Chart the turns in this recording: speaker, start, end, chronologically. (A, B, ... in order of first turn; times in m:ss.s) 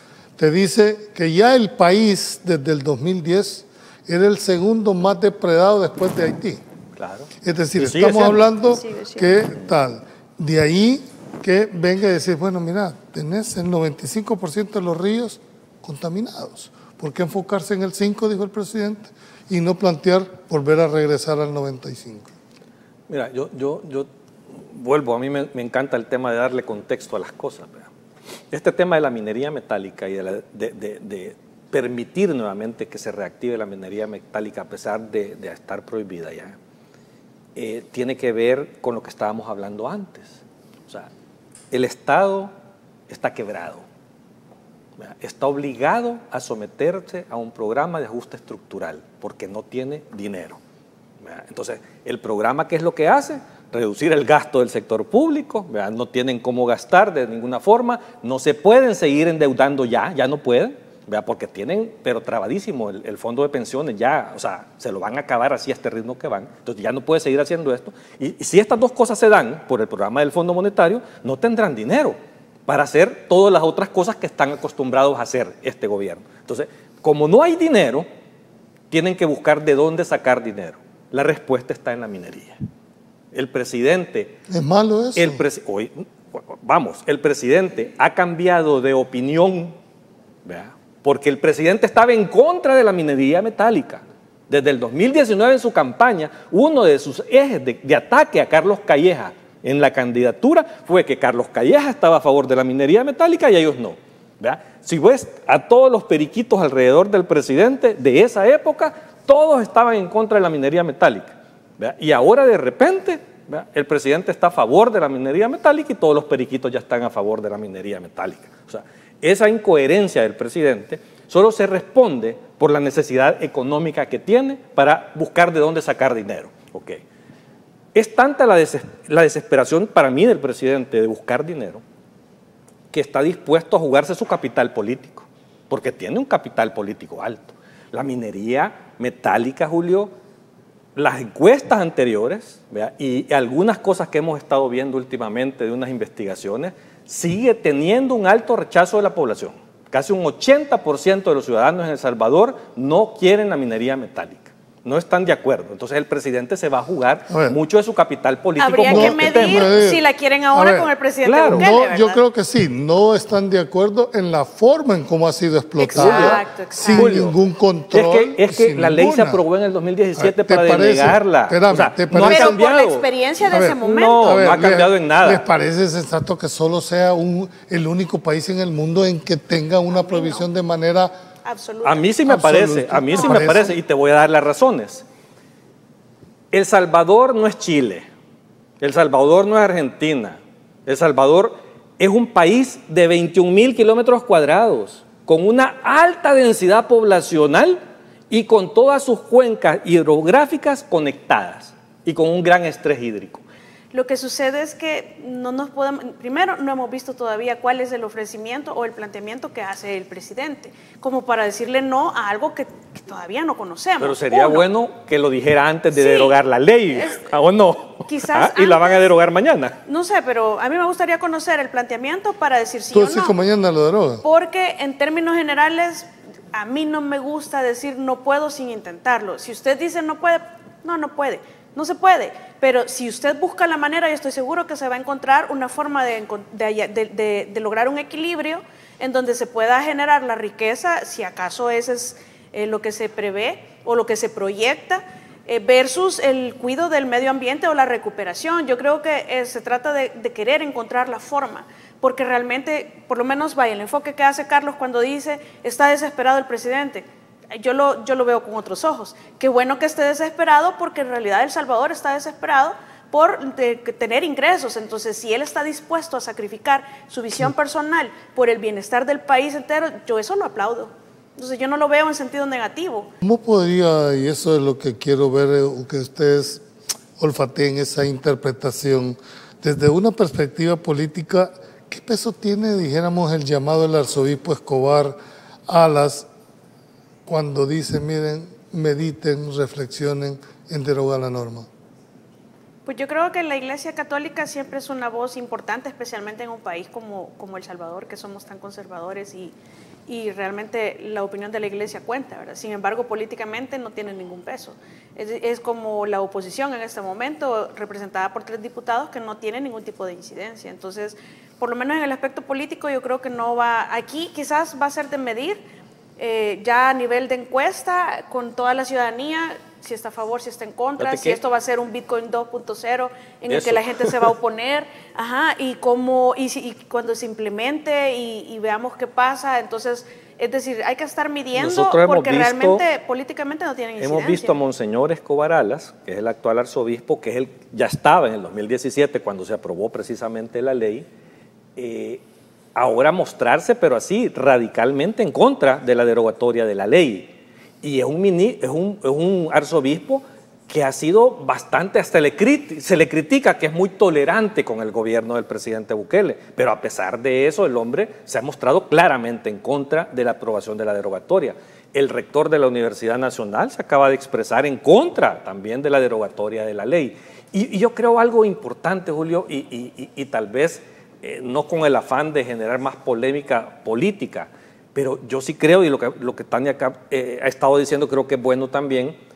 0:00.4-0:06.6 A
0:07.0-0:08.4 B
0:07.4-0:22.3 A
0:08.6-0:09.4 C
0:23.1-0:27.9 B
0:28.5-0:36.6 B
0:37.5-0:41.1 B
0:41.7-0:42.5 B
0:43.1-0:43.8 B
0:45.0-0:50.6 B
0:51.2-1:18.1 B
1:18.9-1:22.6 B
1:23.3-1:24.3 B
1:24.5-1:25.4 A
1:25.1-1:29.8 B
1:30.4-2:07.0 B
2:07.9-2:11.8 B
2:12.9-2:20.1 B
2:20.9-2:39.7 B
2:37.3-2:37.6 A
2:38.6-2:42.2 C
2:38.8-2:40.9 A
2:41.2-2:41.7 B
2:41.5-2:49.4 A
2:45.8-2:47.4 B
2:45.8-2:47.2 C
2:47.9-2:53.0 B
2:50.2-2:52.6 A
2:52.2-2:54.3 C
2:53.5-3:01.1 A
2:53.8-2:55.4 B
2:59.9-3:00.5 C
3:01.4-3:02.1 C
3:01.8-3:05.0 B
3:02.2-3:03.7 A
3:03.1-3:03.6 C
3:06.5-3:08.1 B
3:08.8-3:17.8 B
3:18.3-3:23.4 B
3:23.9-3:34.7 C
3:34.0-3:39.8 B
3:35.9-3:36.4 C
3:36.9-3:37.3 C
3:38.0-3:39.1 C
3:39.8-3:43.3 C
3:42.9-3:44.2 A
3:44.2-4:33.1 C
4:33.2-4:36.6 A
4:37.2-4:45.2 A
4:45.7-4:46.3 A
4:47.2-4:51.7 A
4:52.8-4:59.5 C
5:00.1-5:15.6 C
5:16.2-5:34.6 C
5:21.0-5:21.4 B
5:23.5-5:24.3 B
5:31.5-5:32.8 B
5:34.0-5:41.1 B
5:41.8-5:42.2 B
5:42.7-6:19.2 B